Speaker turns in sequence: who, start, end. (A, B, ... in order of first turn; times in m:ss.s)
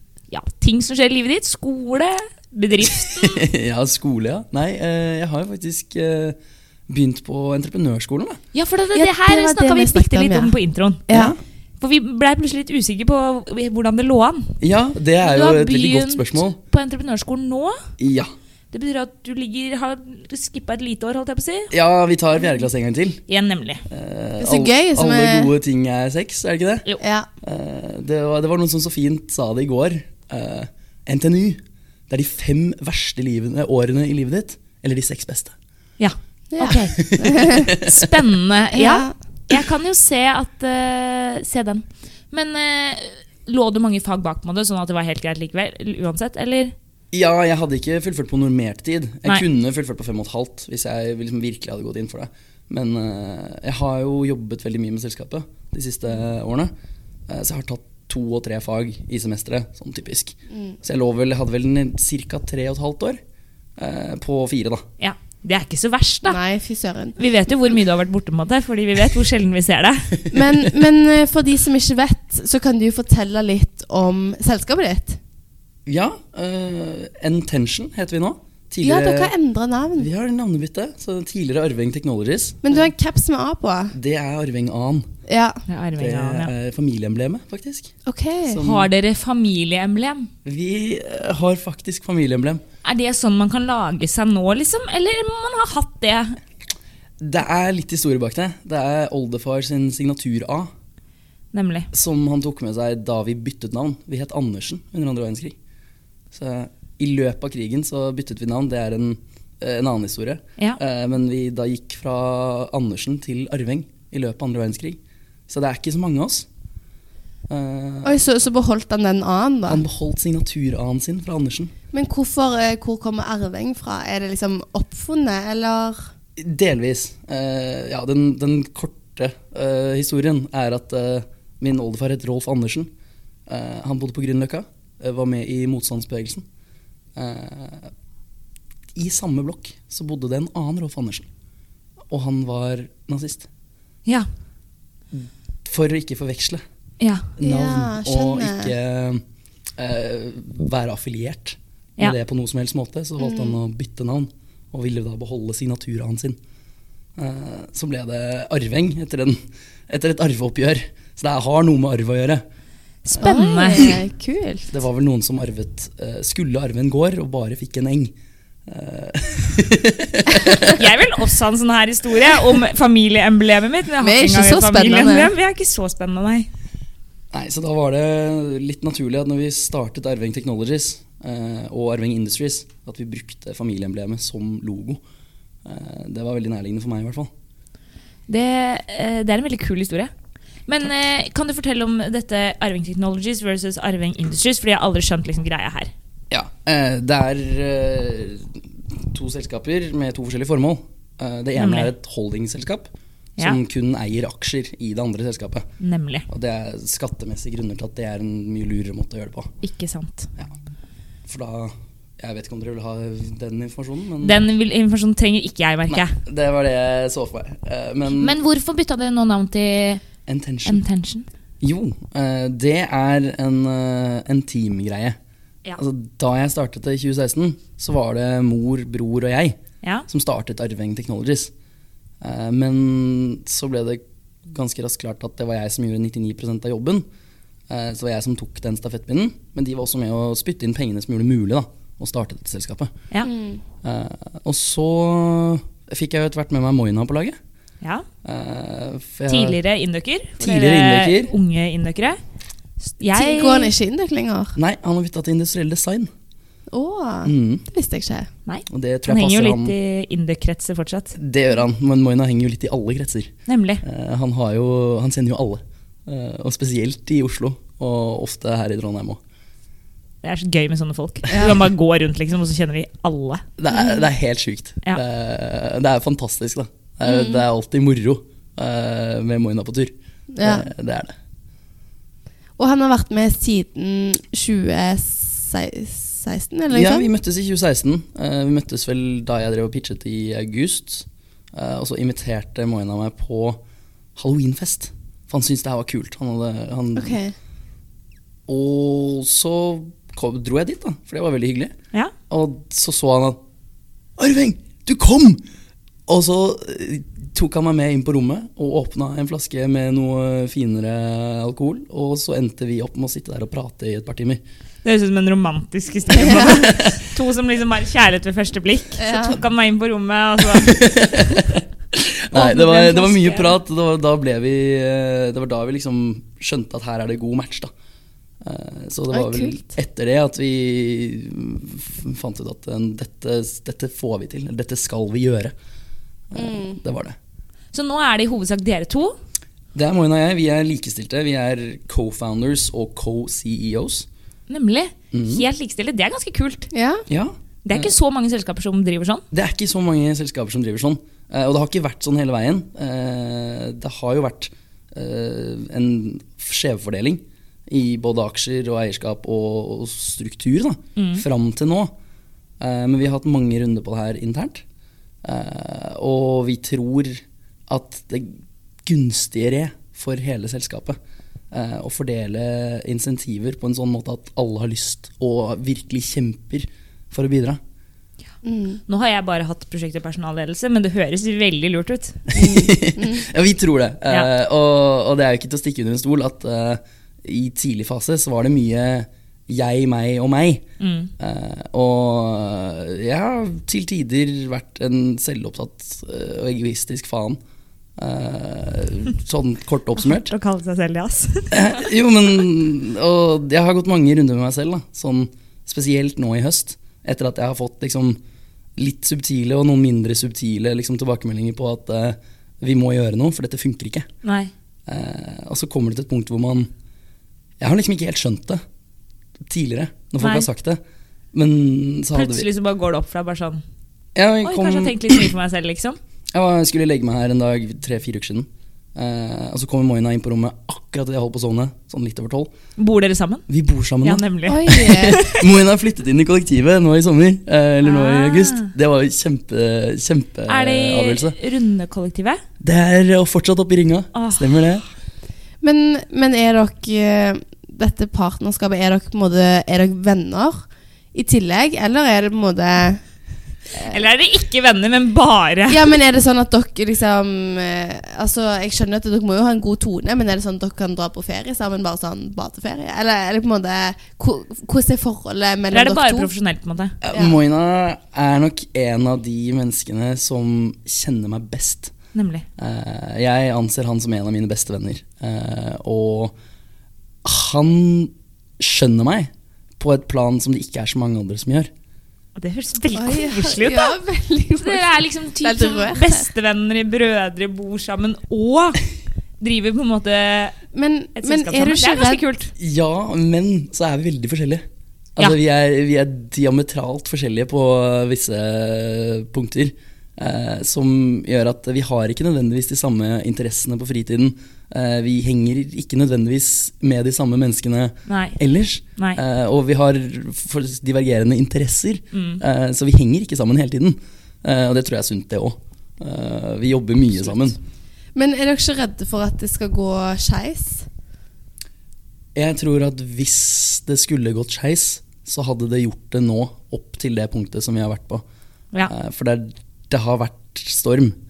0:00.3-0:03.4 A
0:03.0-0:06.4 B
0:06.9-0:08.4 B
0:08.5-0:11.0 A
0:08.9-0:10.5 C
0:11.1-0:11.3 C
0:11.1-0:11.4 B
0:11.8-0:14.6 A
0:14.6-0:16.6 B
0:15.2-0:17.8 A
0:18.0-0:18.3 B
0:18.7-0:21.7 A
0:21.7-0:23.2 B
0:23.3-0:23.8 A
0:23.9-0:26.8 B
0:24.4-0:25.5 C
0:27.0-0:27.3 C
0:27.4-0:35.5 B
0:36.0-0:37.1 A
0:36.5-0:37.8 C
0:37.0-0:38.1 B
0:37.6-0:46.7 A
0:38.7-0:39.1 C
0:47.1-0:56.7 B
0:57.3-1:03.2 B
1:03.8-1:04.8 B
1:05.0-1:06.4 A
1:06.2-1:07.2 C
1:07.2-1:10.2 A
1:10.3-1:15.2 C
1:15.8-1:19.3 B
1:18.8-1:20.1 C
1:20.0-1:22.9 B
1:22.6-1:23.9 C
1:23.9-1:25.1 B
1:25.3-1:25.6 C
1:25.7-1:26.5 A
1:26.0-1:27.9 B
1:28.0-1:28.6 C
1:28.5-1:28.9 B
1:28.6-1:30.3 A
1:30.4-1:32.6 B
1:32.8-1:36.4 A
1:37.2-1:40.7 B
1:41.5-1:41.9 A
1:41.9-1:45.6 B
1:46.3-1:55.0 B
1:55.5-1:56.5 B
1:57.5-1:58.2 B
1:58.0-1:59.8 C
1:59.7-2:01.7 B
2:01.9-2:06.1 C
2:06.4-2:12.9 B
2:13.5-2:16.4 B
2:17.1-2:17.9 B
2:18.9-2:21.3 B
2:22.1-2:23.5 B
2:25.1-2:26.6 B
2:27.0-2:27.3 A
2:27.4-2:29.2 B
2:27.4-2:28.7 C
2:29.8-2:36.4 B
2:37.2-2:42.4 B
2:43.0-2:44.0 A
2:43.2-2:43.9 B
2:43.2-2:44.7 C
2:44.7-2:48.1 B
2:48.7-2:50.8 B
2:50.6-2:56.5 A
2:54.0-2:55.3 C
2:57.3-3:05.0 B
3:05.6-3:07.3 B
3:08.3-3:10.1 A
3:10.7-3:15.9 A
3:16.3-3:25.7 B
3:21.6-3:21.9 A
3:25.8-3:26.3 A
3:26.3-3:29.5 B
3:29.6-3:30.3 A
3:31.2-3:34.4 B
3:34.2-3:36.2 A
3:35.9-3:38.4 B
3:38.1-3:40.0 A
3:40.2-3:40.8 B
3:40.6-3:41.2 A
3:41.6-3:45.2 B
3:45.8-3:51.5 B
3:52.2-3:57.0 B
3:57.7-4:02.9 B
4:03.2-4:03.6 C
4:03.8-4:07.4 B
4:08.2-4:09.6 B
4:09.3-4:12.2 A
4:10.4-4:11.3 B
4:12.8-4:13.7 A
4:13.1-4:14.5 C
4:14.5-4:16.1 B
4:16.7-4:18.3 C
4:17.2-4:17.6 B
4:18.5-4:21.1 A
4:18.7-4:19.7 B
4:21.1-4:29.2 B
4:23.5-4:23.8 A
4:30.2-4:33.4 A
4:31.3-4:31.6 C
4:33.6-4:41.1 B
4:37.0-4:37.4 C
4:40.3-4:40.7 C
4:42.6-4:47.1 C
4:46.7-4:53.6 B
4:54.2-4:57.2 B
4:57.0-4:57.3 C
4:58.5-5:01.7 B
5:02.3-5:03.4 B
5:04.2-5:05.4 B
5:06.1-5:14.4 B
5:14.8-5:20.8 A
5:16.2-5:17.0 B
5:19.0-5:19.4 C
5:20.5-5:27.7 B
5:22.3-5:23.5 A
5:28.4-5:35.5 B
5:29.1-5:29.7 C
5:36.3-5:37.2 B
5:36.3-5:36.8 C
5:37.7-5:39.1 A
5:39.7-5:44.1 B
5:44.5-5:46.7 A
5:45.1-5:45.4 B
5:46.7-5:47.0 C
5:47.1-5:47.9 B
5:47.6-5:49.2 A
5:49.3-6:01.9 B
6:01.0-6:01.2 A
6:02.6-6:04.6 B
6:05.2-6:11.0 B
6:11.5-6:17.6 B
6:18.4-6:18.8 C
6:18.9-6:22.2 A
6:22.3-6:30.6 B
6:22.3-6:23.2 C
6:30.8-6:31.1 A
6:31.2-6:37.4 B
6:38.0-6:40.3 B
6:40.0-6:41.7 A
6:41.5-6:48.2 B
6:48.8-6:54.1 B
6:54.2-6:54.5 A
6:54.8-6:56.7 B
6:57.6-6:58.6 B
6:59.4-7:00.8 B
7:00.2-7:00.5 A
7:01.3-7:02.5 B
7:02.1-7:03.6 A
7:04.1-7:05.3 B
7:04.4-7:06.0 A
7:06.3-7:12.5 B
7:12.8-7:13.4 A
7:13.5-7:21.4 B
7:14.0-7:15.4 A
7:14.4-7:15.2 C
7:17.8-7:18.7 A
7:20.5-7:22.4 A
7:22.6-7:24.8 B
7:24.1-7:24.5 A
7:25.6-7:30.6 C
7:31.1-7:33.0 C
7:33.7-7:34.0 C
7:33.8-7:36.0 A
7:35.7-7:46.3 C
7:45.7-7:47.0 A
7:47.0-7:51.9 B
7:47.1-7:47.4 C
7:52.1-7:52.4 A
7:52.6-7:56.3 B
7:57.2-8:01.7 B
8:02.4-8:04.0 A
8:02.9-8:06.2 C
8:04.6-8:08.8 A
8:09.4-8:10.6 A
8:10.7-8:12.2 C
8:11.2-8:12.5 A
8:12.6-8:14.6 B
8:15.2-8:37.6 B
8:28.1-8:28.4 A
8:29.0-8:29.2 A
8:32.1-8:32.4 A
8:38.1-8:40.9 C
8:42.3-8:48.2 B
8:48.8-8:51.2 B